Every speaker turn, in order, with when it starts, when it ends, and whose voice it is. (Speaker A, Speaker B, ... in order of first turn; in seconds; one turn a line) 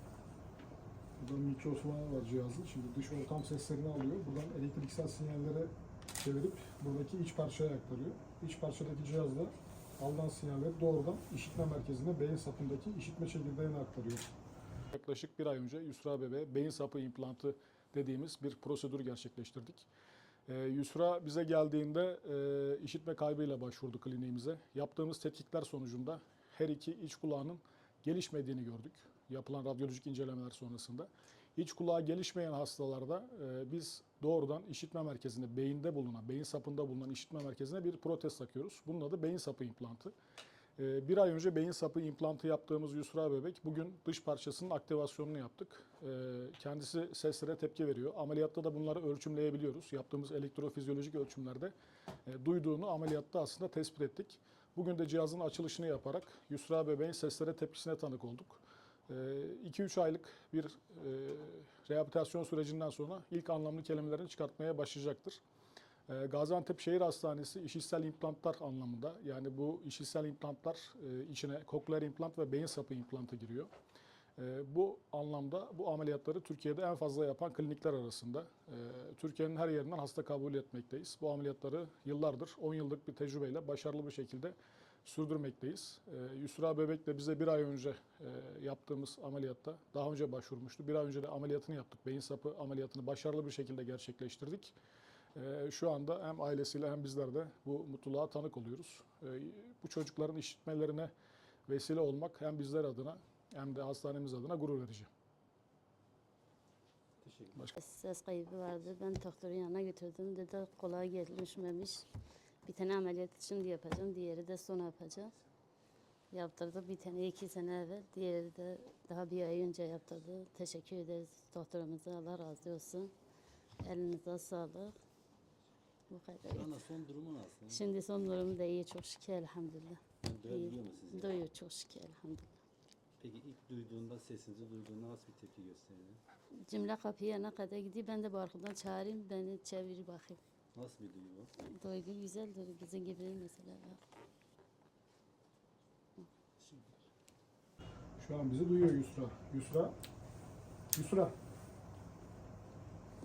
Speaker A: 1.2-14.3
Speaker A: 14.9-19.9
Speaker A: 20.5-40.1
Speaker A: 40.8-51.7
Speaker A: 52.3-65.4
Speaker A: 66.1-73.7
Speaker A: 74.4-94.7
Speaker A: 95.3-101.1
Speaker A: 101.7-105.1
Speaker B: 107.2-107.6
Speaker C: 107.8-112.1
Speaker C: 112.7-115.3
Speaker C: 116.3-123.1
Speaker C: 123.8-125.0
Speaker C: 126.1-126.7
Speaker B: 126.5-127.8
Speaker C: 127.7-132.6
Speaker B: 130.2-131.4
Speaker B: 133.2-136.2
Speaker C: 136.7-140.4
Speaker B: 140.7-141.5
Speaker C: 141.7-144.0
Speaker B: 146.6-147.0
Speaker A: 148.2-149.9
Speaker A: 150.9-151.3